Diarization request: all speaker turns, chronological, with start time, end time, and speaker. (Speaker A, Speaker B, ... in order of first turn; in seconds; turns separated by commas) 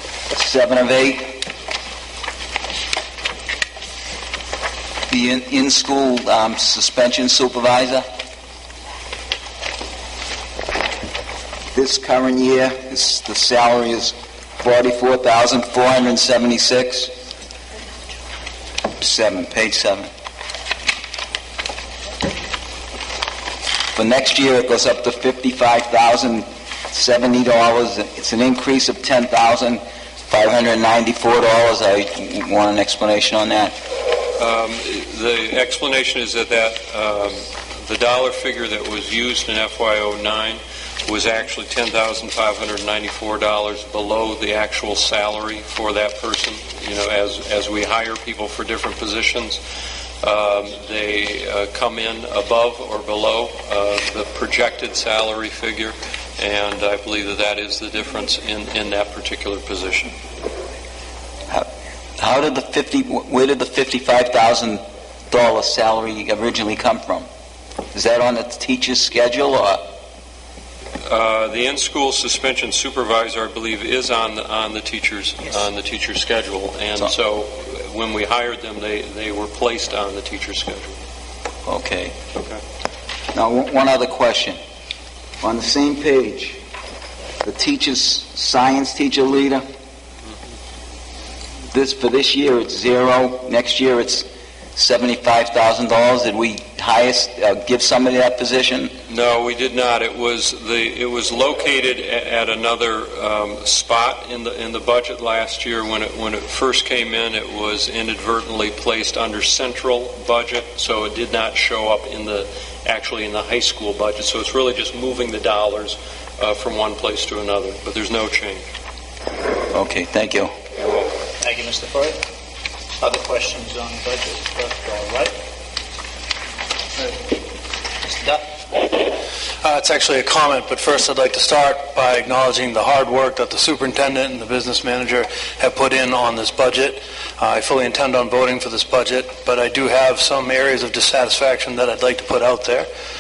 Speaker A: 0.3-1.4, Speaker A: 5.1-8.1, Speaker A: 11.7-17.1, Speaker A: 19.0-20.1, Speaker A: 23.9-33.8, Speaker B: 34.4-49.6, Speaker B: 50.2-60.1, Speaker A: 61.5-67.3, Speaker A: 67.9-69.9, Speaker B: 71.0-81.0, Speaker A: 81.7-82.2, Speaker A: 83.3-84.6, Speaker A: 85.4-86.6, Speaker A: 87.4-89.7, Speaker A: 91.7-99.0, Speaker B: 99.1-118.7, Speaker A: 119.7-120.5, Speaker B: 120.8-121.1, Speaker C: 121.4-122.2, Speaker C: 123.0-125.4, Speaker C: 127.0-127.2, Speaker C: 128.0-128.9, Speaker D: 129.6-142.9